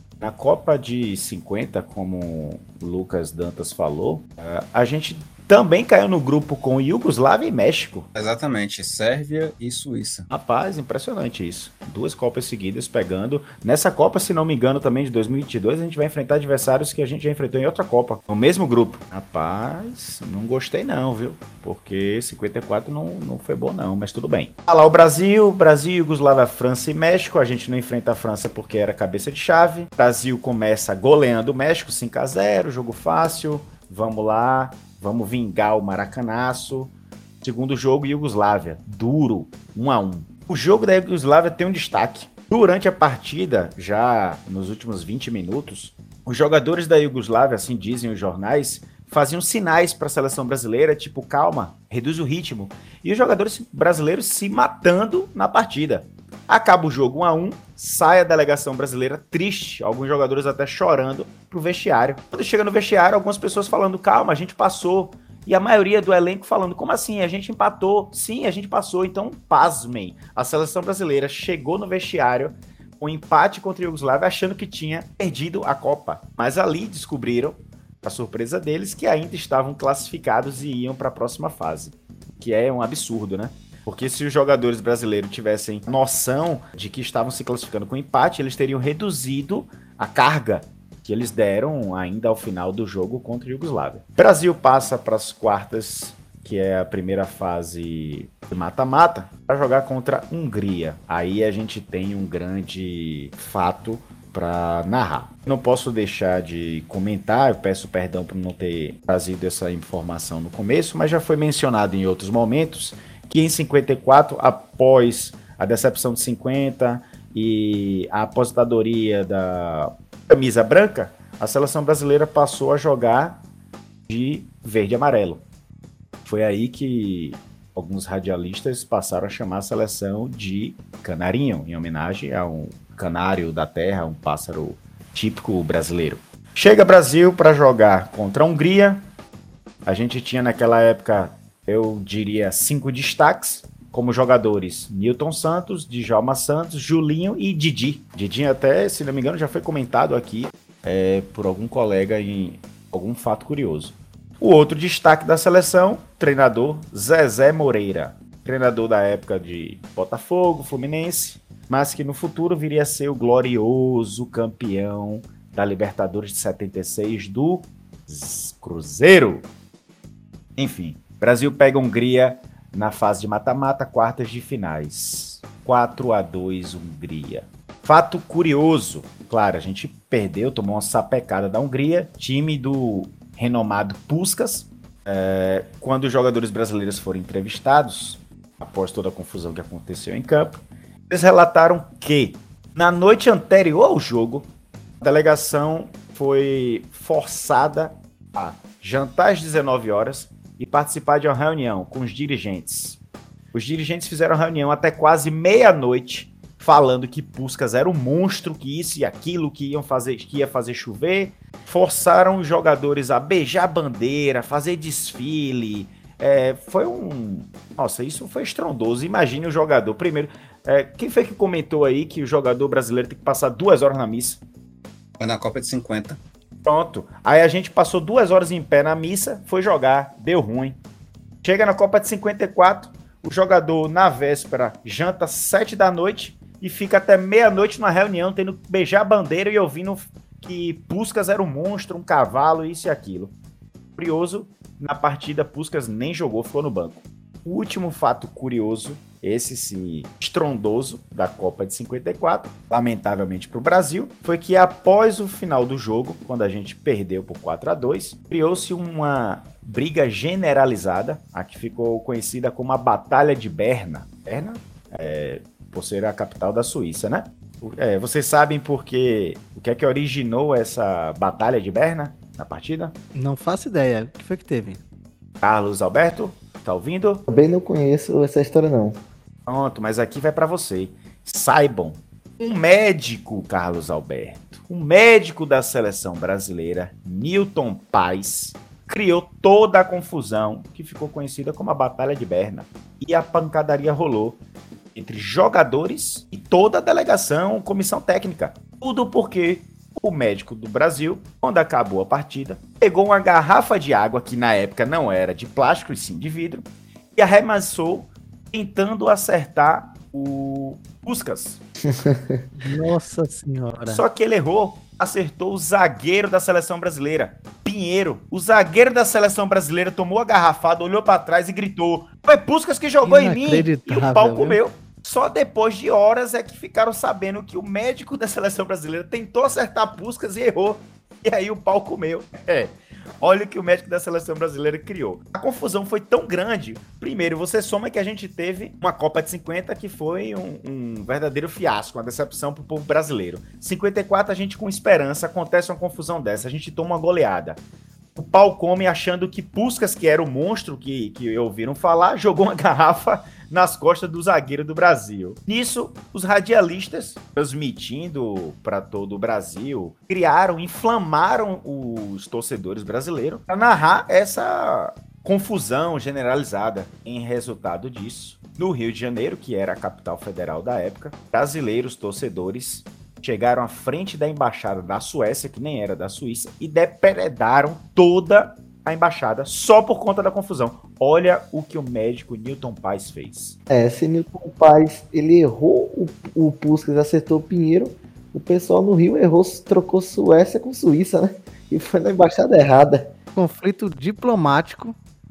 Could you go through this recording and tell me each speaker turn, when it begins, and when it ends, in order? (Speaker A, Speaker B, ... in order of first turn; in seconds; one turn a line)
Speaker A: 0.2-8.1
Speaker B: 8.2-10.3
Speaker A: 10.3-123.4
Speaker A: 124.1-125.4
Speaker A: 126.2-139.1
Speaker A: 139.9-169.5
Speaker A: 170.6-194.5
Speaker A: 195.0-203.0
Speaker A: 203.5-224.4
Speaker B: 225.2-226.2
Speaker A: 226.7-230.8
Speaker A: 231.4-243.3
Speaker A: 244.0-273.0
Speaker C: 273.1-274.8
Speaker A: 275.4-277.3
Speaker D: 277.3-279.0
Speaker A: 279.5-294.4
Speaker A: 294.9-311.6
Speaker D: 311.9-312.4
Speaker C: 312.6-314.0
Speaker A: 313.9-347.6
Speaker C: 323.0-324.6
Speaker A: 348.2-383.6
Speaker D: 383.7-393.1
Speaker C: 393.4-395.0